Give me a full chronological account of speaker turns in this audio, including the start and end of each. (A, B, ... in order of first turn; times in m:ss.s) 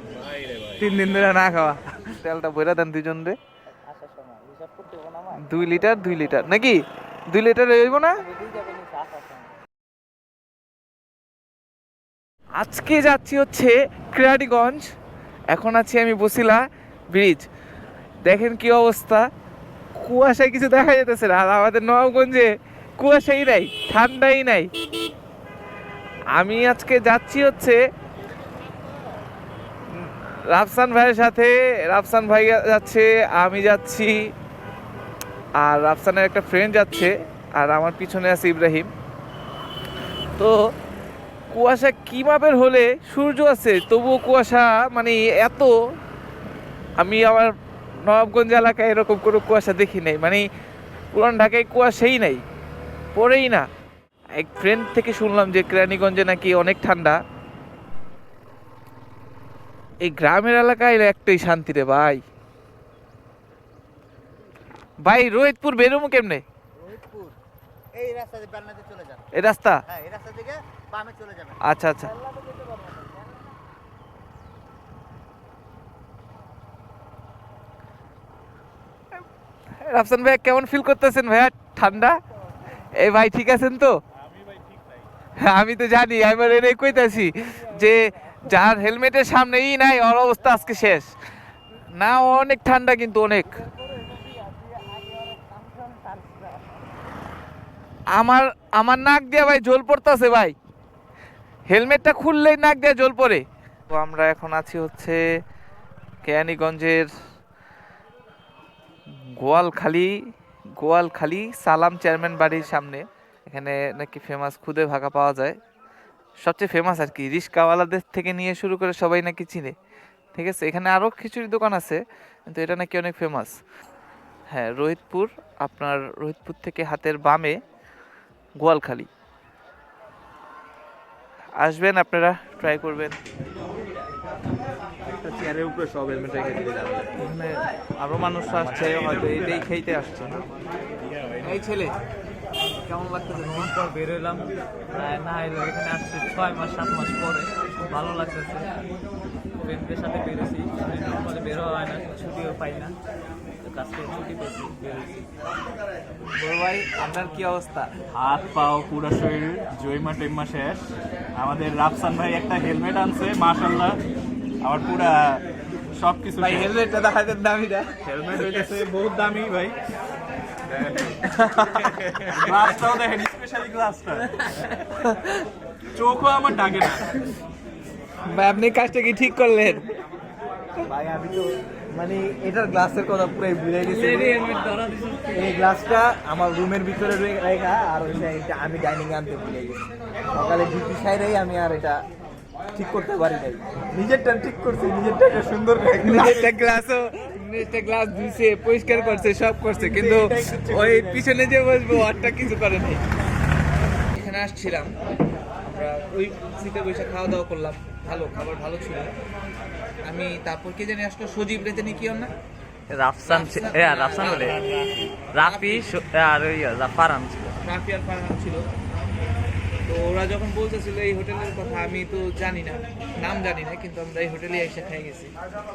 0:00.8-0:03.4 A
0:03.9-0:06.3 B
0:05.4-0:08.2 A
0:08.2-0:09.5 B
0:12.5-0:14.9 A
0:15.5-0:17.4 A
0:18.2-0:19.3 A
0:19.9-0:24.7 A
0:26.3-0:27.8 A
0:29.9-0:34.3 A
0:35.6-0:38.9 A
0:41.5-0:45.7 A
0:47.0-0:47.5 A
0:48.0-0:50.5 A
0:51.1-0:52.4 A
0:53.1-0:53.7 A
0:54.4-0:57.2 A
1:00.0-1:02.2 A
1:05.0-1:06.4 A
1:06.8-1:07.3 C
1:07.9-1:09.2 C
1:09.3-1:09.8 A
1:09.9-1:11.5 C
1:11.6-1:12.2 A
1:19.7-1:22.2 A
1:23.0-1:24.0 A
1:25.4-1:31.1 A
1:31.9-1:33.6 A
1:33.9-1:36.8 B
1:38.1-1:40.6 A
1:41.7-1:45.2 A
1:46.2-1:47.1 A
1:49.4-1:50.1 A
1:50.8-1:55.6 A
1:56.4-1:59.8 A
2:00.3-2:03.6 A
2:04.5-2:07.6 A
2:08.6-2:09.1 A
2:11.6-2:13.2 A
2:15.1-2:17.2 C
2:17.2-2:20.5 A
2:21.4-2:22.0 A
2:23.0-2:28.7 B
2:23.2-2:23.5 A
2:29.6-2:33.0 B
2:33.6-2:35.2 B
2:36.4-2:37.9 A
2:38.1-2:44.0 D
2:44.6-2:46.7 D
2:46.4-2:48.0 A
2:48.0-2:49.8 D
2:50.7-2:51.1 D
2:51.2-2:52.2 A
2:51.9-2:54.6 D
2:55.9-2:57.4 D
2:58.3-2:59.9 A
3:00.8-3:04.5 C
3:03.8-3:05.4 B
3:05.3-3:12.0 C
3:12.7-3:16.5 C
3:16.0-3:23.0 A
3:19.7-3:21.2 C
3:24.1-3:24.9 A
3:25.7-3:29.1 A
3:30.0-3:32.3 A
3:32.9-3:37.6 B
3:33.2-3:34.7 A
3:35.3-3:36.0 A
3:37.6-3:38.6 A
3:39.9-3:45.3 A